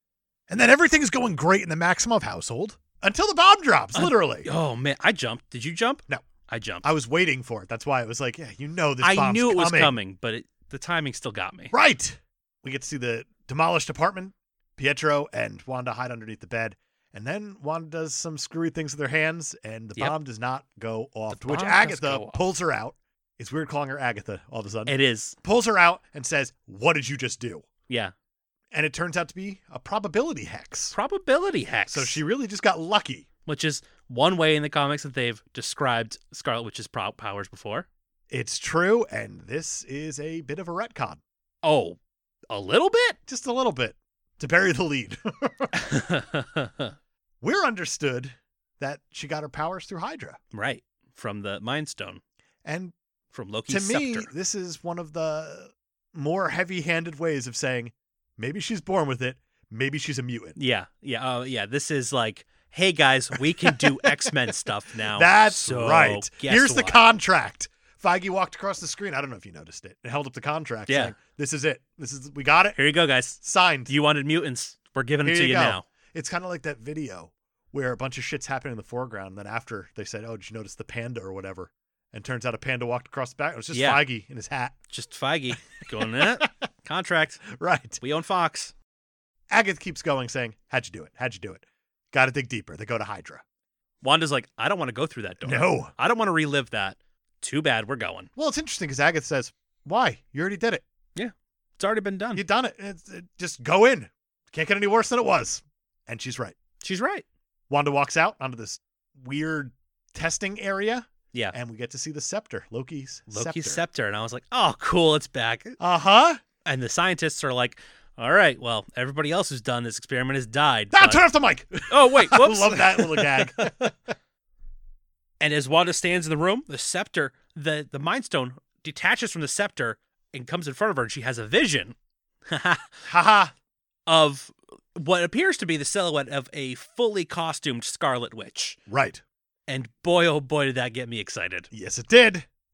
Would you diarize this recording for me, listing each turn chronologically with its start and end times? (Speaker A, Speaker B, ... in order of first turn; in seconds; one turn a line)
Speaker A: 0.5-4.5
Speaker B: 4.0-6.9
Speaker A: 6.8-9.9
Speaker B: 9.0-11.7
Speaker A: 11.7-27.7
Speaker B: 21.3-22.5
Speaker B: 24.9-25.4
Speaker B: 27.9-28.1
Speaker A: 28.7-31.0
Speaker B: 30.9-32.2
Speaker A: 31.9-33.3
Speaker B: 33.5-37.9
Speaker A: 38.3-41.2
Speaker B: 41.6-42.0
Speaker B: 42.5-43.2
Speaker A: 43.3-45.8
Speaker B: 45.7-47.0
Speaker A: 47.4-50.4
Speaker B: 50.5-52.2
Speaker A: 52.6-52.9
Speaker B: 53.3-54.3
Speaker A: 53.7-60.6
Speaker B: 60.6-67.0
Speaker A: 63.6-64.3
Speaker A: 65.1-72.8
Speaker B: 70.9-71.2
Speaker B: 72.8-75.9
Speaker A: 73.4-73.9
Speaker A: 75.2-84.8
Speaker B: 83.7-84.0
Speaker B: 84.9-87.5
Speaker A: 85.8-86.5
Speaker A: 87.5-88.0
Speaker B: 88.0-88.7
Speaker A: 89.5-93.4
Speaker B: 94.0-98.3
Speaker A: 95.4-95.9
Speaker A: 98.4-100.8
Speaker B: 101.2-102.4
Speaker A: 102.3-106.6
Speaker B: 106.8-107.2
Speaker A: 107.7-113.8
Speaker B: 113.3-115.8
Speaker A: 115.8-116.4
Speaker B: 116.6-121.3
Speaker A: 120.9-123.8
Speaker B: 121.9-123.9
Speaker B: 125.4-132.0
Speaker B: 132.5-133.1
Speaker A: 133.1-133.5
Speaker B: 134.1-138.8
Speaker A: 138.9-139.2
Speaker B: 139.7-141.7
Speaker A: 141.7-142.5